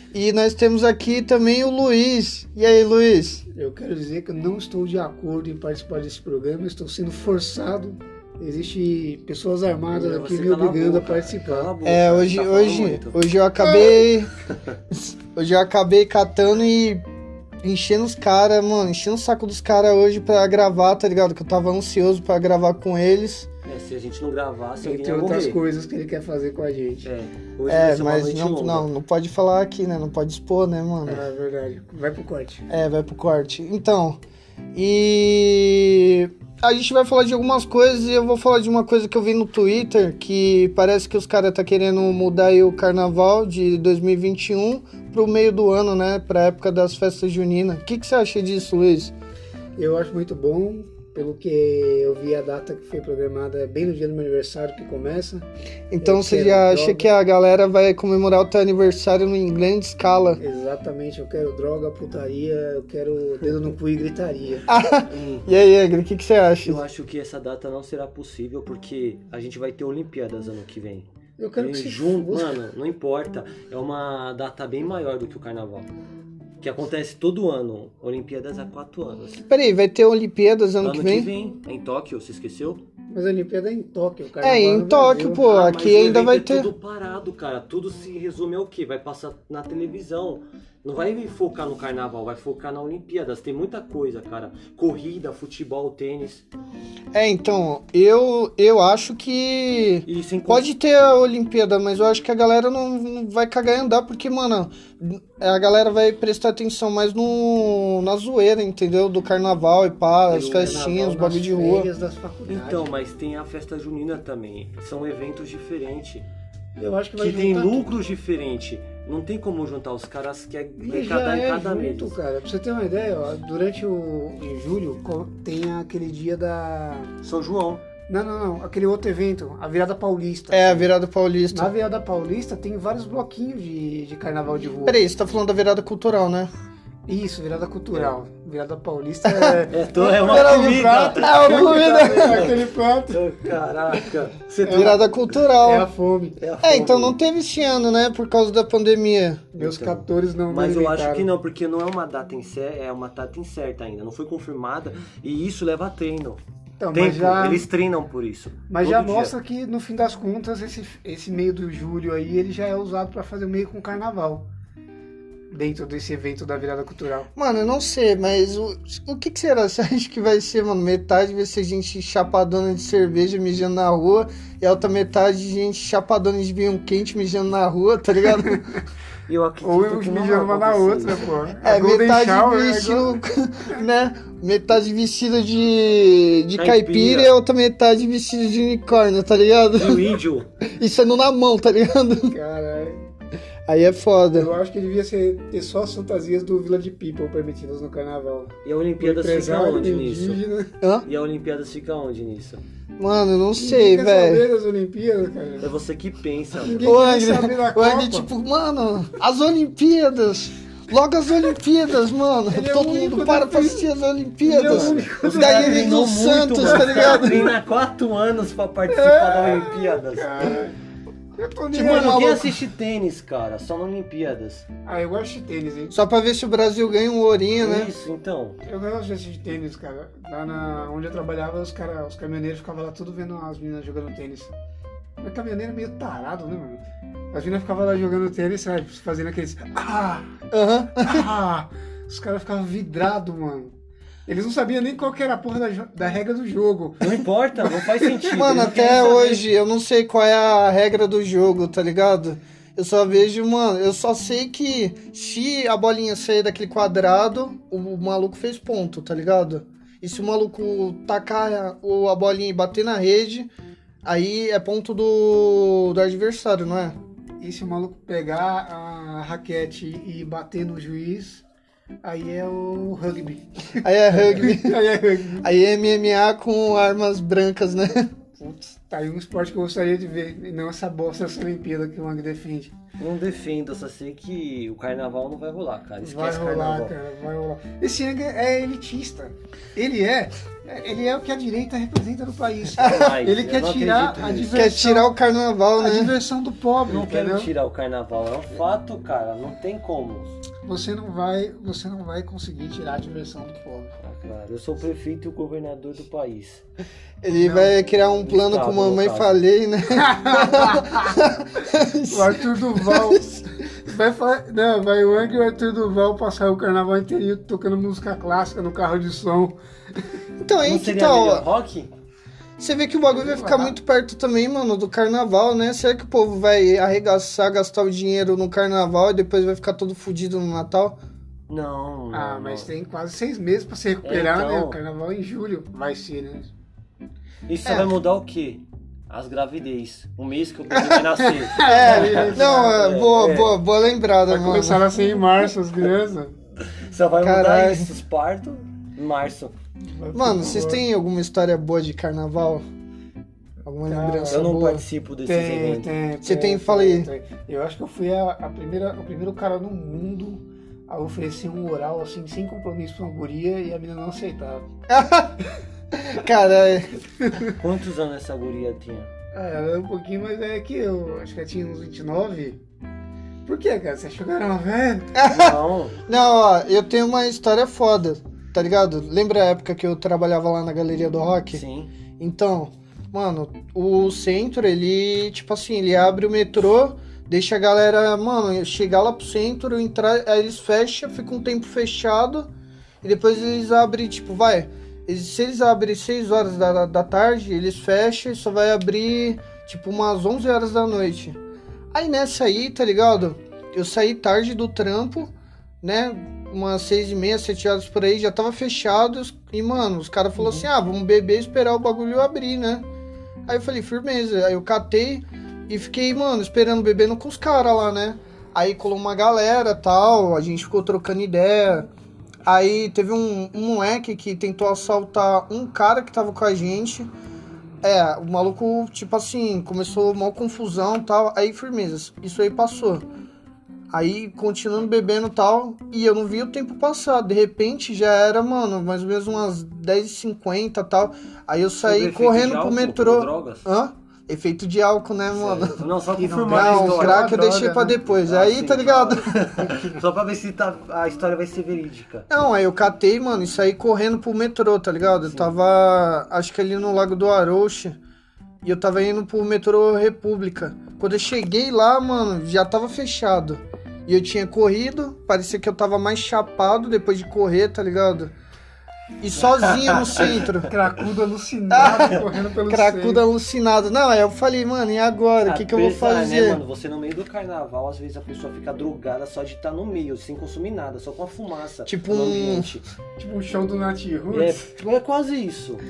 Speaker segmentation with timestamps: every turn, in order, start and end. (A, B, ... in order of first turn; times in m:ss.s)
0:00.1-0:03.4 A
0:03.5-0:11.7 B
0:09.9-0:13.2 C
0:11.8-0:14.3 A
0:14.9-0:17.0 A
0:17.6-0:23.5 A
0:23.6-0:25.6 C
0:24.8-0:27.0 B
0:27.0-0:28.9 C
0:27.7-0:31.2 A
0:31.0-0:32.7 B
0:32.7-0:34.2 A
0:34.7-0:49.1 A
0:49.8-0:55.4 B
0:55.9-1:00.4 A
0:56.0-0:57.1 B
1:00.4-1:04.7 B
1:04.7-1:06.8 A
1:05.0-1:05.5 C
1:06.6-1:15.9 C
1:11.4-1:12.6 B
1:16.6-1:19.4 C
1:19.5-1:21.3 A
1:20.8-1:22.8 C
1:23.1-1:25.4 B
1:24.4-1:26.7 A
1:25.4-1:36.4 C
1:37.1-1:51.9 A
1:40.1-1:40.7 C
1:50.3-1:52.9 B
1:50.3-1:50.8 C
1:52.5-1:56.2 C
1:56.8-1:57.9 B
1:57.2-2:02.2 C
2:00.8-2:07.1 B
2:07.2-2:07.8 C
2:08.1-2:10.9 B
2:10.5-2:11.7 A
2:11.5-2:15.0 B
2:14.8-2:16.5 A
2:17.1-2:23.2 B
2:19.2-2:19.6 A
2:19.7-2:25.0 C
2:20.2-2:22.5 A
2:24.6-2:26.4 B
2:24.7-2:25.9 A
2:26.4-2:27.2 C
2:26.6-2:29.6 A
2:29.6-2:31.3 B
2:29.6-2:36.4 C
2:36.8-2:37.7 B
2:36.9-2:39.3 C
2:38.7-2:44.4 B
2:45.5-2:47.3 B
2:47.4-2:58.6 A
2:58.3-2:58.8 B
2:59.3-3:01.3 C
2:59.6-3:03.2 B
3:01.6-3:10.1 A
3:06.5-3:07.3 C
3:09.7-3:10.5 C
3:10.6-3:12.3 A
3:12.2-3:13.1 B
3:13.7-3:14.5 A
3:14.3-3:20.7 B
3:18.6-3:20.4 C
3:20.8-3:21.1 A
3:21.0-3:22.6 C
3:23.0-3:24.4 A
3:23.6-3:25.7 B
3:25.6-3:26.8 C
3:26.6-3:28.3 B
3:26.8-3:37.5 A
3:32.5-3:33.9 B
3:34.4-3:36.0 B
3:34.6-3:40.5 C
3:36.6-3:37.5 B
3:38.9-3:40.7 B
3:41.4-3:42.3 B
3:41.7-3:42.6 A
3:41.7-3:44.7 C
3:44.8-3:46.0 B
3:45.9-3:47.9 A
3:47.6-3:48.6 C
3:48.6-3:54.5 B
3:55.2-4:00.4 B
4:00.5-4:01.3 A
4:01.0-4:03.7 B
4:04.2-4:08.4 B
4:07.0-4:09.4 C
4:08.3-4:23.5 A
4:24.0-4:27.0 A
4:27.4-4:31.4 B
4:32.0-4:35.5 B
4:33.8-4:34.8 A
4:35.4-4:38.1 A
4:38.4-4:42.7 B
4:43.0-4:46.9 C
4:46.0-4:55.2 B
4:52.8-4:54.6 C
4:52.8-4:53.1 A
4:54.5-4:56.1 A
4:55.8-4:57.5 B
4:56.9-5:00.4 C
5:00.6-5:03.9 B
5:04.0-5:06.6 C
5:07.2-5:13.4 A
5:07.4-5:07.8 B
5:08.2-5:09.4 C
5:09.9-5:11.2 B
5:12.0-5:20.1 B
5:20.4-5:21.5 A
5:20.6-5:21.9 C
5:22.6-5:31.0 A
5:23.1-5:23.8 B
5:31.5-5:32.7 C
5:32.1-5:36.5 B
5:34.0-5:34.8 C
5:37.5-5:43.6 C
5:37.6-5:37.9 A
5:40.7-5:41.0 A
5:41.5-5:42.8 B
5:41.6-5:44.9 A
5:44.3-5:46.4 B
5:46.6-5:49.5 C
5:47.2-5:47.9 A
5:49.9-5:50.8 B
5:50.1-5:52.6 A
5:53.6-5:54.8 A
5:53.9-5:54.5 B
5:54.3-5:55.9 C
5:55.2-6:04.6 B
5:56.2-5:57.1 A
6:04.9-6:05.4 A
6:05.9-6:06.9 A
6:07.4-6:09.1 C
6:09.3-6:12.6 B
6:13.4-6:15.2 B
6:15.1-6:21.6 A
6:15.2-6:16.0 C
6:21.5-6:21.9 C
6:22.2-6:32.5 A
6:33.0-6:41.4 A
6:41.9-6:52.8 A
6:53.5-7:01.9 A
7:02.4-7:07.1 A
7:07.8-7:13.1 A
7:13.9-7:25.8 A
7:21.8-7:23.7 C
7:25.3-7:32.3 C
7:26.1-7:28.0 B
7:26.5-7:29.3 A
7:29.6-7:30.0 B
7:32.3-7:38.0 A
7:38.6-7:48.3 A
7:49.2-7:50.7 A
7:49.4-7:50.7 C
7:50.6-7:53.2 B
7:51.7-7:56.6 A
7:55.4-8:02.8 C
8:01.9-8:02.7 A
8:03.2-8:04.7 B
8:04.3-8:05.8 C